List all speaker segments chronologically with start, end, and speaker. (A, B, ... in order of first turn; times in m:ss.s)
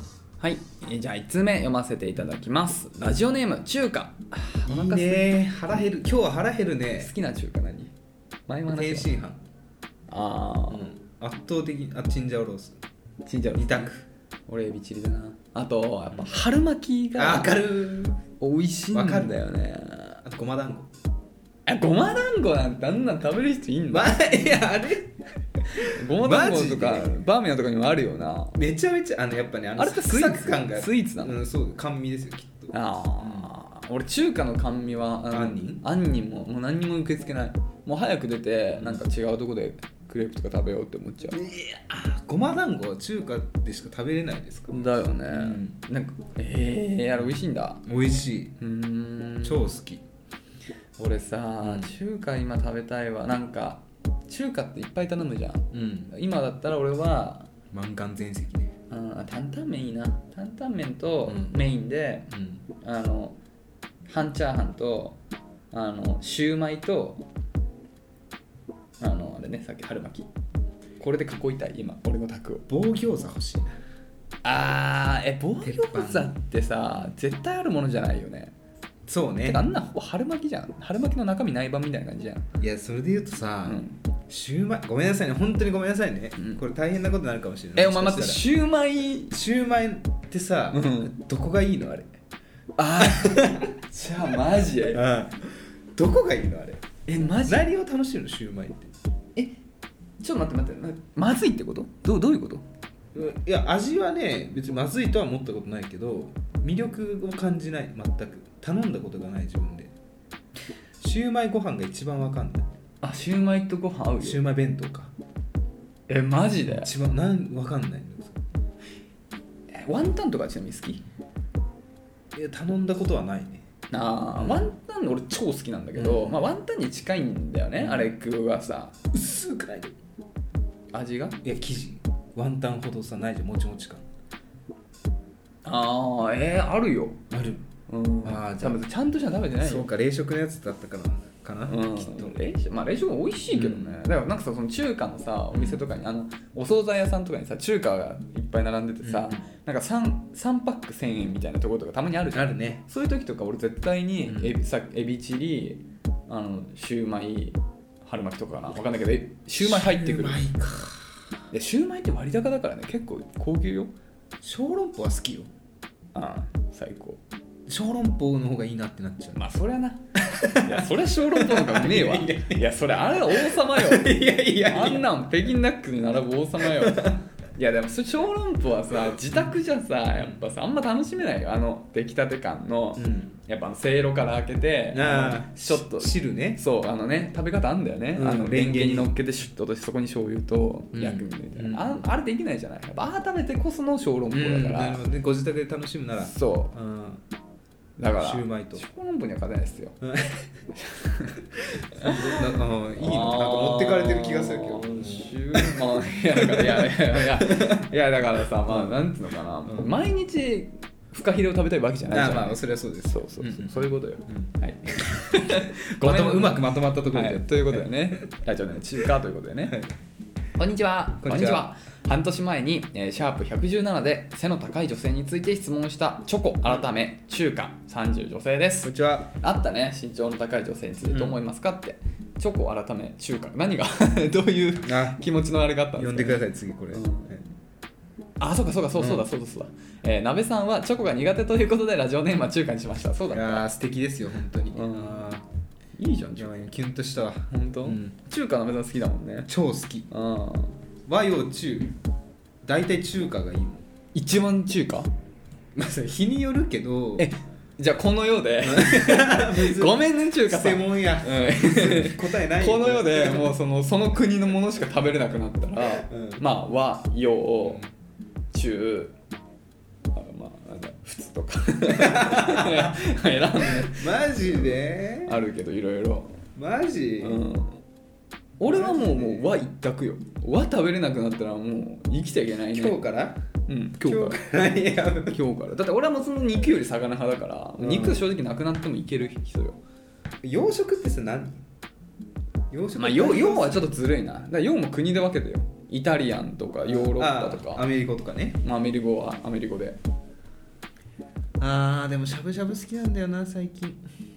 0:00.4-0:05.3 A
0:04.6-0:07.1 B
0:07.0-0:07.9 A
0:08.5-0:09.1 A
0:08.7-0:09.4 B
0:10.1-0:10.8 A
0:10.7-0:12.8 B
0:13.2-0:13.9 A
0:13.5-0:14.0 B
0:14.5-0:17.6 A
0:17.2-0:18.2 B
0:18.4-0:20.2 A
0:18.9-0:19.4 B
0:20.2-0:20.9 B
0:21.6-0:24.3 A
0:23.9-0:27.1 B
0:25.8-0:28.6 A
0:28.5-0:33.5 B
0:29.8-0:31.4 A
0:32.7-0:41.4 A
0:35.3-0:35.8 B
0:38.7-0:39.0 B
0:41.3-0:45.8 B
0:44.7-0:47.8 A
0:47.8-0:48.6 B
0:48.6-0:49.7 A
0:49.4-0:50.0 B
0:51.0-0:57.5 A
0:51.6-0:51.9 B
0:55.7-0:56.1 B
0:57.7-0:58.7 B
0:58.9-1:02.3 A
1:01.2-1:01.6 B
1:02.3-1:02.6 B
1:02.8-1:03.4 A
1:04.0-1:05.2 A
1:05.7-1:07.2 A
1:09.0-1:10.3 A
1:11.0-1:12.6 A
1:12.7-1:13.8 B
1:14.4-1:18.5 A
1:15.6-1:16.4 B
1:19.1-1:19.6 B
1:19.4-1:22.5 A
1:22.6-1:28.4 B
1:23.6-1:24.0 A
1:27.8-1:29.3 A
1:29.3-1:32.1 B
1:30.7-1:31.1 A
1:32.8-1:35.0 A
1:33.0-1:33.8 B
1:34.7-1:36.9 B
1:37.0-1:37.7 A
1:37.4-1:38.9 B
1:40.2-1:42.6 A
1:43.1-1:49.9 B
1:51.0-1:52.7 B
1:53.0-1:54.4 A
1:54.2-1:55.1 B
1:56.1-1:56.9 A
1:56.6-1:58.4 B
1:59.7-2:01.0 A
2:02.3-2:03.6 B
2:03.9-2:09.0 A
2:04.3-2:04.7 B
2:06.0-2:06.4 B
2:07.8-2:08.2 B
2:09.1-2:09.9 B
2:10.9-2:11.4 A
2:11.4-2:14.0 B
2:15.6-2:17.2 A
2:17.3-2:17.6 B
2:17.9-2:19.9 A
2:18.2-2:18.9 B
2:19.6-2:22.4 B
2:21.6-2:40.8 A
2:23.5-2:24.0 B
2:25.5-2:25.8 B
2:29.0-2:29.4 B
2:32.3-2:32.8 B
2:34.2-2:34.5 B
2:39.6-2:41.2 B
2:41.5-2:43.9 A
2:44.4-2:45.5 B
2:46.1-2:47.2 A
2:47.7-2:49.4 B
2:49.4-3:15.0 A
2:50.2-2:55.1 B
2:56.6-2:57.2 B
3:03.0-3:03.3 B
3:04.9-3:06.6 B
3:08.1-3:09.1 B
3:10.9-3:12.0 B
3:14.3-3:17.2 B
3:16.2-3:16.7 A
3:18.0-3:20.0 A
3:18.2-3:18.8 B
3:20.0-3:20.5 B
3:20.8-3:21.4 A
3:21.6-3:27.9 B
3:22.0-3:32.6 A
3:28.6-3:29.1 B
3:29.6-3:30.0 B
3:32.1-3:38.3 B
3:33.1-3:39.8 A
3:39.6-3:39.9 B
3:40.6-3:57.3 A
3:41.2-3:41.6 B
3:48.8-3:49.3 B
3:51.1-3:51.4 B
3:54.8-3:55.2 B
3:55.9-3:57.4 B
3:58.4-4:03.6 A
3:58.9-3:59.2 B
4:03.3-4:05.4 B
4:04.7-4:05.3 A
4:06.0-4:06.7 A
4:06.4-4:08.1 B
4:07.5-4:09.5 A
4:09.5-4:10.1 B
4:10.1-4:10.8 A
4:11.1-4:11.9 B
4:12.6-4:13.8 B
4:14.1-4:15.1 A
4:15.7-4:17.3 B
4:17.2-4:27.8 A
4:18.6-4:23.5 B
4:26.1-4:26.4 B
4:28.5-4:29.1 A
4:30.1-4:36.4 A
4:31.9-4:33.0 B
4:33.6-4:35.4 B
4:36.5-4:37.4 B
4:37.2-4:37.8 A
4:38.6-4:43.0 A
4:38.6-4:39.5 B
4:42.7-4:43.4 B
4:43.7-4:44.4 A
4:44.0-4:45.4 B
4:45.3-4:49.8 A
4:47.8-4:48.3 B
4:50.4-4:51.6 B
4:52.7-4:53.9 B
4:53.0-4:57.9 A
4:56.8-4:58.6 B
4:58.6-5:00.0 A
5:01.6-5:04.0 B